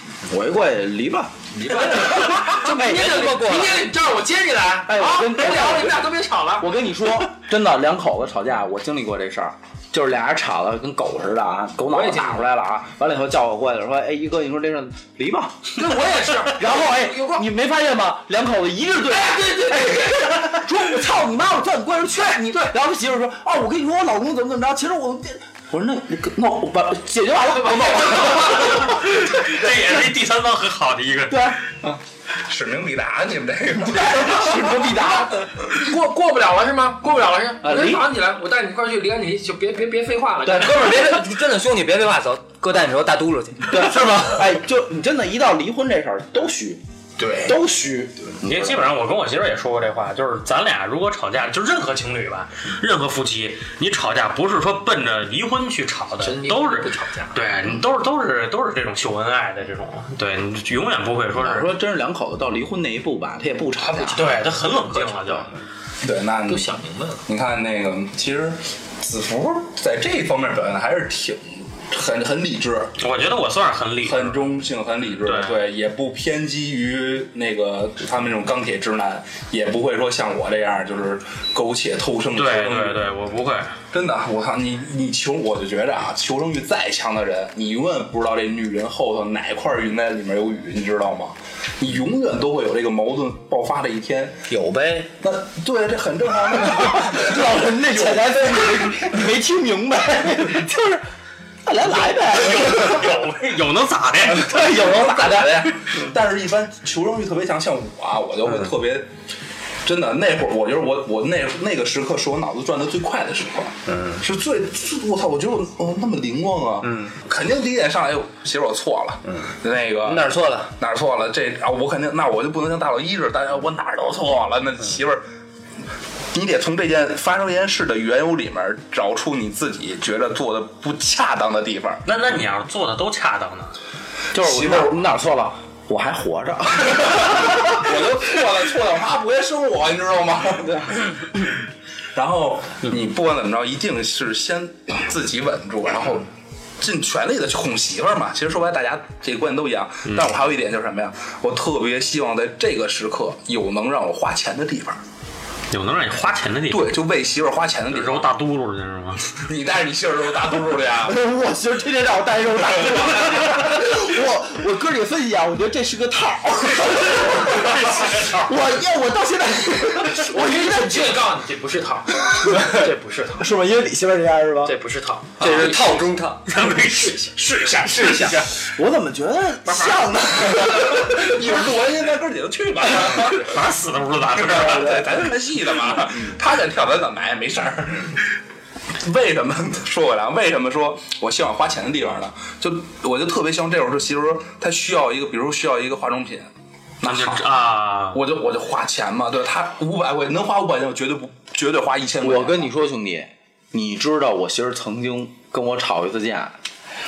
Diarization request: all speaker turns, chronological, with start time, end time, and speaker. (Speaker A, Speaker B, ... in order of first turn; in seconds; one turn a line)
Speaker A: 0.3-3.2
Speaker B: 1.5-6.8
Speaker C: 2.5-3.9
Speaker A: 4.9-29.8
Speaker B: 11.9-12.4
Speaker B: 15.8-17.5
Speaker B: 19.1-20.8
Speaker B: 27.4-29.0
Speaker D: 28.7-31.6
Speaker A: 31.3-31.6
Speaker E: 31.9-34.5
Speaker A: 33.8-35.5
Speaker B: 35.6-41.2
Speaker A: 37.6-38.1
Speaker A: 40.5-40.8
Speaker C: 40.5-44.4
Speaker A: 43.7-46.8
Speaker B: 47.2-47.6
Speaker A: 47.4-48.9
Speaker D: 48.4-61.7
Speaker B: 56.2-57.4
Speaker A: 61.4-64.5
Speaker B: 63.8-65.3
Speaker D: 64.1-65.5
Speaker E: 66.0-66.7
Speaker B: 66.5-67.2
Speaker E: 67.3-73.0
Speaker D: 73.0-74.4
Speaker E: 74.0-83.0
Speaker D: 75.2-75.6
Speaker D: 82.3-83.8
Speaker E: 83.9-94.5
Speaker C: 94.5-95.1
Speaker E: 95.2-99.0
Speaker A: 96.6-101.0
Speaker A: 101.6-103.2
Speaker D: 102.2-104.6
Speaker A: 104.2-105.7
Speaker E: 104.5-109.1
Speaker E: 109.8-125.2
Speaker C: 120.0-120.7
Speaker E: 126.3-132.0
Speaker D: 132.1-133.8
Speaker A: 134.3-137.9
Speaker E: 134.3-135.0
Speaker E: 136.9-141.1
Speaker A: 140.6-141.0
Speaker E: 142.1-146.3
Speaker E: 146.8-155.0
Speaker D: 155.7-157.0
Speaker E: 156.7-158.3
Speaker D: 157.9-159.3
Speaker E: 159.5-161.2
Speaker A: 161.1-171.1
Speaker E: 162.7-163.5
Speaker D: 167.8-168.4
Speaker B: 170.1-173.5
Speaker A: 172.5-172.7
Speaker A: 173.4-174.8
Speaker B: 174.6-176.0
Speaker C: 175.4-176.5
Speaker D: 175.4-178.6
Speaker B: 176.6-177.4
Speaker E: 177.4-178.5
Speaker A: 178.6-181.7
Speaker E: 179.8-183.6
Speaker D: 183.3-185.0
Speaker E: 184.4-188.3
Speaker A: 184.5-185.3
Speaker A: 185.9-186.3
Speaker E: 189.0-196.5
Speaker E: 197.0-197.5
Speaker D: 197.0-198.2
Speaker E: 198.1-202.7
Speaker A: 202.2-206.6